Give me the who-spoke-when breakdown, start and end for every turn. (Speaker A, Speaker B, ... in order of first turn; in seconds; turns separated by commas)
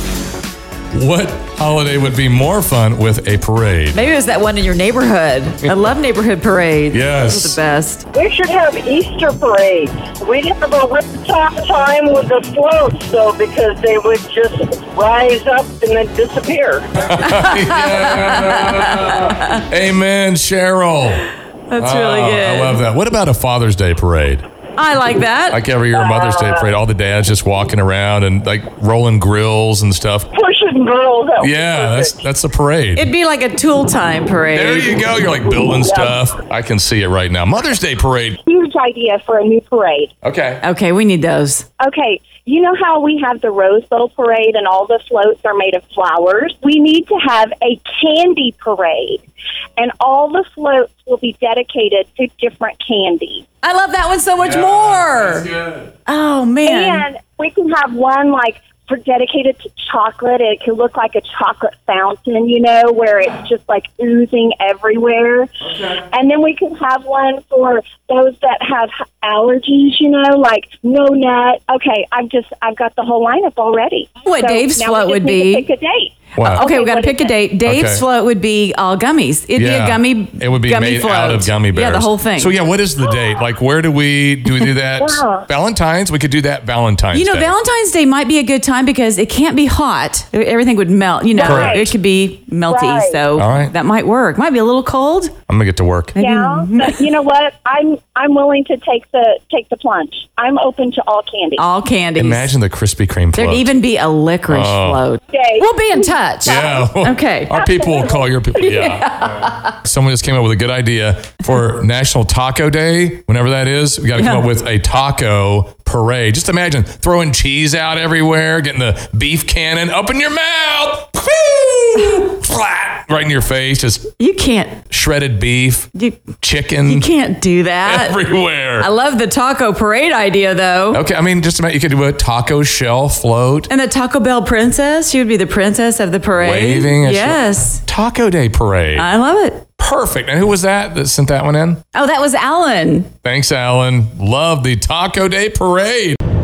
Speaker A: 0.9-4.0, Speaker B: 3.9-8.0, Speaker A: 6.9-7.6, Speaker C: 8.1-16.9, Speaker A: 17.0-21.2, Speaker B: 17.3-19.6, Speaker B: 21.7-22.8, Speaker A: 21.8-24.4, Speaker B: 24.8-25.6, Speaker A: 25.5-30.3, Speaker C: 26.1-26.6, Speaker C: 30.3-32.1, Speaker A: 31.4-33.1, Speaker B: 33.0-34.9, Speaker A: 34.5-38.4, Speaker D: 38.5-40.1, Speaker A: 40.2-40.6, Speaker B: 40.6-41.6, Speaker D: 41.8-49.2, Speaker D: 49.8-53.4, Speaker B: 53.6-55.5, Speaker A: 54.4-55.9, Speaker B: 56.0-57.0, Speaker D: 56.6-65.5, Speaker A: 65.6-66.0, Speaker D: 66.1-77.4, Speaker B: 74.2-75.6, Speaker A: 76.4-76.6, Speaker B: 76.5-82.5, Speaker A: 77.6-78.0, Speaker A: 79.5-87.5, Speaker D: 85.0-85.5, Speaker B: 87.1-95.3, Speaker D: 91.3-91.9, Speaker A: 91.4-91.9, Speaker D: 92.7-93.2, Speaker A: 93.4-93.7, Speaker A: 95.5-96.1, Speaker B: 96.1-97.0, Speaker D: 96.2-101.6, Speaker B: 101.6-102.5, Speaker A: 102.2-103.7, Speaker B: 103.3-107.5, Speaker A: 104.5-105.0, Speaker D: 105.3-106.8, Speaker A: 106.4-124.1, Speaker D: 107.6-108.1, Speaker B: 108.5-109.7, Speaker B: 114.2-114.4, Speaker B: 124.2-124.8, Speaker A: 124.9-127.1, Speaker B: 125.9-126.2, Speaker B: 126.8-128.2, Speaker A: 127.8-128.9, Speaker B: 128.8-131.0, Speaker A: 130.9-133.7, Speaker B: 133.7-137.8, Speaker A: 136.4-139.1, Speaker B: 138.9-139.6, Speaker A: 139.8-141.8, Speaker B: 141.9-143.1, Speaker A: 143.2-146.2